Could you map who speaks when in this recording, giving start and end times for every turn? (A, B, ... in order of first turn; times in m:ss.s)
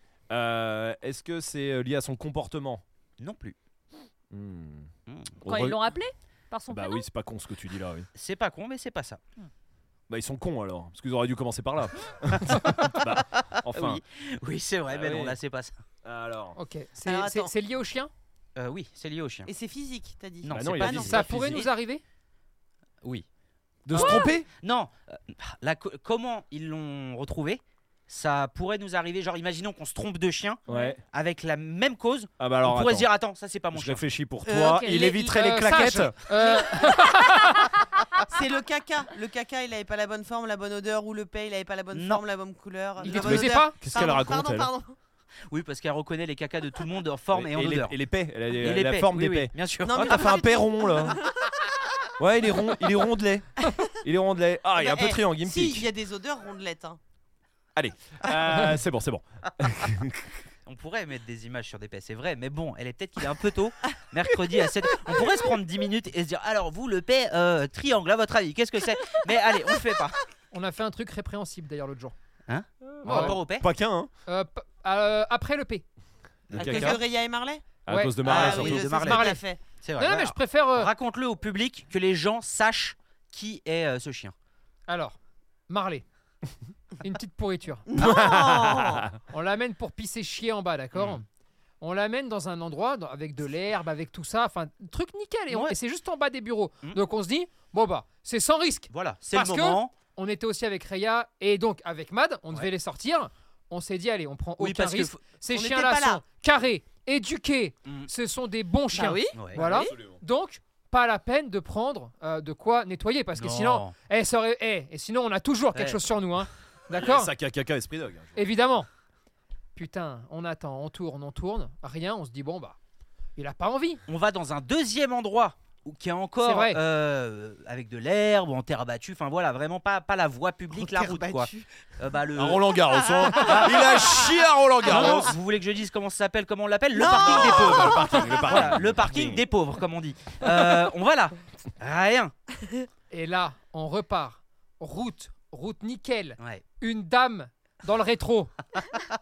0:00.3-0:02.8 A
0:03.2-0:03.6 B
0:04.3-0:04.9 A
0:05.1-0:05.3 B
0:05.4-0:05.8 A
0:05.4-0:07.0 C
0:06.7-0:08.1 A
0:08.1-0:09.2 B
0:10.1-0:14.0 A
0:13.7-0:15.7 B
0:14.9-0:15.4 A
0:16.0-0:16.6 A
0:16.6-0:18.1 D
0:17.0-0:17.5 E
0:18.6-0:19.5 B
0:19.4-0:21.3 E
0:20.4-0:21.7 B
0:20.5-0:21.6 A
0:20.9-0:22.0 D
0:23.8-0:24.5 A
0:23.9-0:24.3 C
0:24.6-0:34.0 B
0:30.7-0:31.0 C
0:30.7-0:31.0 A
0:32.4-0:33.1 A
0:33.7-0:36.2 A
0:34.4-0:35.3 E
0:34.9-0:37.8 D
0:36.3-0:37.1 E
0:38.3-0:45.0 E
0:41.9-0:42.2 B
0:43.0-0:43.7 D
0:43.0-0:44.7 A
0:45.5-0:48.0 B
0:47.3-0:51.2 A
0:48.6-0:50.4 B
0:49.8-0:51.8 E
0:52.2-0:53.5 A
0:54.0-0:55.9 A
0:54.7-0:57.0 E
0:57.7-1:00.3 A
1:00.6-1:10.2 B
1:10.5-1:12.1 D
1:12.5-1:13.6 B
1:12.8-1:14.1 A
1:13.0-1:13.4 D
1:14.3-1:15.8 D
1:16.5-1:17.0 A
1:16.5-1:17.7 E
1:16.5-1:17.0 B
1:17.8-1:18.8 A
1:17.9-1:18.2 D
1:18.2-1:19.6 E
1:18.2-1:24.3 B
1:18.8-1:19.4 D
1:20.0-1:20.9 D
1:24.9-1:25.2 D
1:25.7-1:26.0 D
1:27.0-1:27.9 D
1:27.8-1:29.0 E
1:28.0-1:29.2 A
1:29.3-1:31.2 D
1:30.9-1:31.2 B
1:31.8-1:57.3 D
1:35.5-1:35.8 B
1:38.9-1:39.9 B
1:44.6-1:45.2 B
1:45.5-1:46.2 E
1:47.8-1:48.1 B
1:48.9-1:49.9 E
1:49.3-1:49.7 B
1:49.6-1:50.2 A
1:53.3-1:53.9 B
1:55.7-1:56.1 B
1:57.0-1:58.4 A
1:58.4-1:58.9 D
1:59.8-2:02.8 D
2:03.4-2:04.0 D
2:04.1-2:12.8 B
2:06.4-2:06.8 D
2:10.7-2:11.7 E
2:12.4-2:15.3 A
2:13.0-2:14.3 E
2:13.3-2:14.1 B
2:14.8-2:22.3 B
2:16.9-2:18.7 E
2:17.1-2:19.4 A
2:23.1-2:28.5 D